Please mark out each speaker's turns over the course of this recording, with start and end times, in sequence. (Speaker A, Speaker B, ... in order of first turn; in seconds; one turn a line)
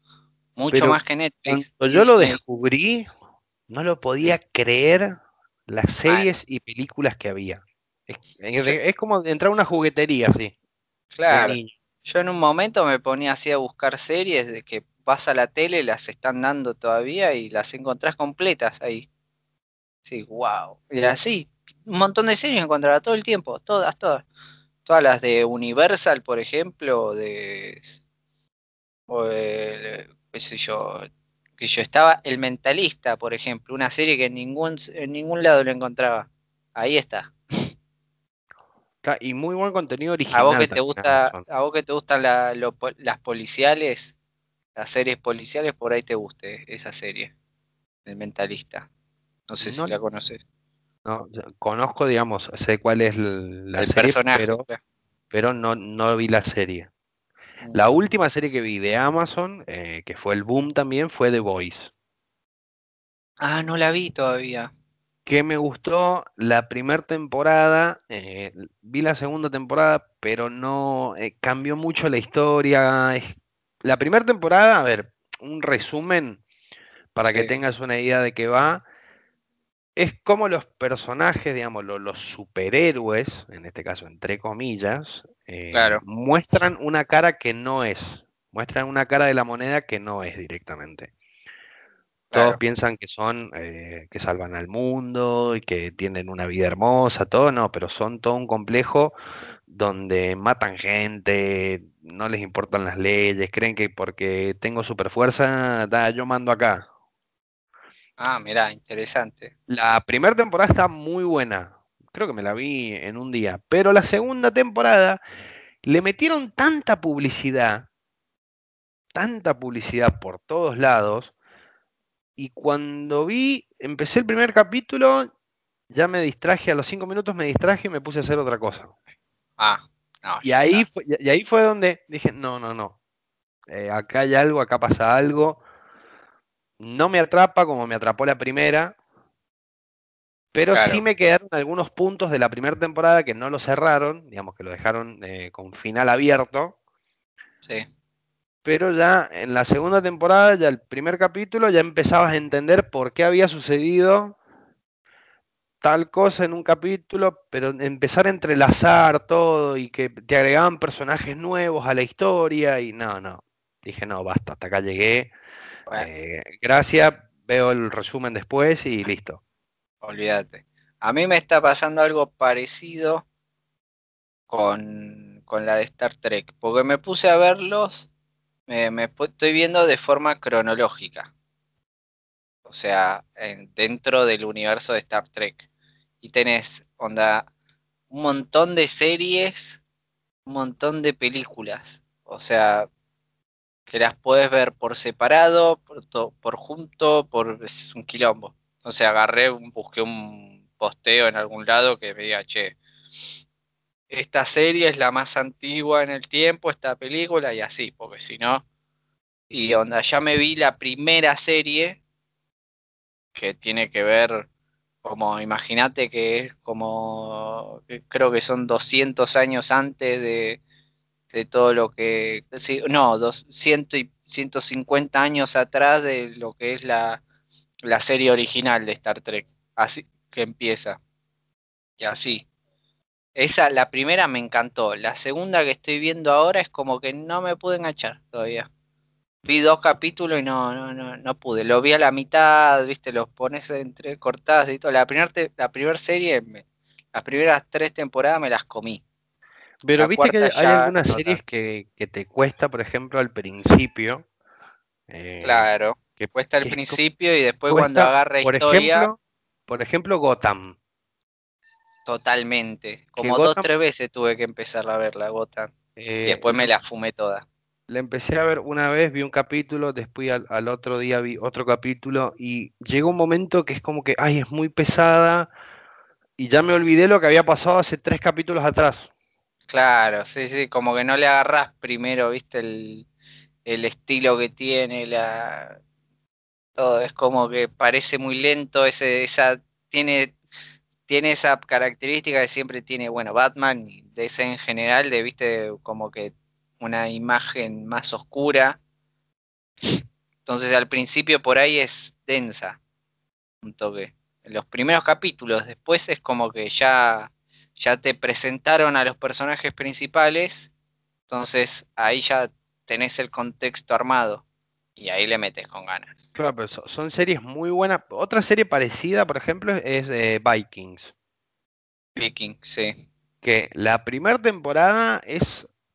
Speaker A: 0.6-2.4
Speaker B: 0.7-3.1
Speaker B: 3.7-10.5
Speaker A: 11.2-19.1
Speaker B: 11.3-11.7
Speaker A: 20.1-24.2
Speaker A: 24.9-27.9
Speaker A: 29.1-31.1
Speaker A: 31.6-37.7
Speaker B: 39.0-41.4
Speaker A: 40.3-44.1
Speaker A: 44.8-47.3
Speaker A: 48.0-48.9
Speaker A: 49.5-50.4
Speaker B: 49.6-50.0
Speaker B: 51.0-54.6
Speaker A: 53.8-54.8
Speaker B: 55.3-56.9
Speaker B: 57.7-61.9
Speaker A: 63.4-64.7
Speaker B: 65.2-76.4
Speaker B: 77.1-78.8
Speaker B: 80.0-91.1
Speaker A: 85.7-86.0
Speaker A: 92.3-92.6
Speaker B: 92.3-99.1
Speaker B: 99.7-106.8
Speaker A: 108.2-109.5
Speaker B: 109.7-115.2
Speaker B: 115.8-117.9
Speaker B: 119.1-121.3
Speaker B: 122.4-125.3
Speaker B: 125.9-128.9
Speaker A: 129.6-130.8
Speaker B: 130.4-132.9
Speaker B: 133.7-135.6
Speaker B: 136.8-138.9
Speaker B: 140.5-146.7
Speaker A: 140.7-141.0
Speaker B: 148.6-154.4
Speaker B: 155.8-165.3
Speaker B: 165.9-169.4
Speaker A: 170.0-173.2
Speaker A: 174.5-178.1
Speaker A: 178.7-181.3
Speaker A: 182.7-185.6
Speaker A: 186.2-187.5
Speaker A: 188.1-189.8
Speaker A: 190.4-192.9
Speaker A: 193.9-202.8
Speaker A: 204.1-208.6
Speaker A: 209.5-212.0
Speaker A: 213.3-214.5
Speaker A: 215.0-220.6
Speaker A: 221.3-227.2
Speaker A: 227.9-231.0
Speaker A: 232.0-232.4
Speaker A: 233.3-238.7
Speaker A: 239.4-249.0
Speaker B: 249.8-254.2
Speaker A: 250.0-251.4
Speaker B: 255.1-257.0
Speaker A: 255.4-259.1
Speaker B: 257.7-260.8
Speaker A: 262.1-265.7
Speaker B: 263.2-263.7
Speaker B: 266.0-266.7
Speaker A: 266.2-267.4
Speaker B: 267.9-275.5
Speaker B: 276.4-279.1
Speaker A: 279.7-283.1
Speaker A: 283.6-285.8
Speaker A: 286.8-290.4
Speaker A: 291.1-298.8
Speaker A: 299.8-302.8
Speaker A: 303.6-310.7
Speaker A: 311.3-314.4
Speaker A: 315.0-316.1
Speaker B: 316.4-321.1
Speaker A: 322.1-323.0
Speaker B: 323.4-325.7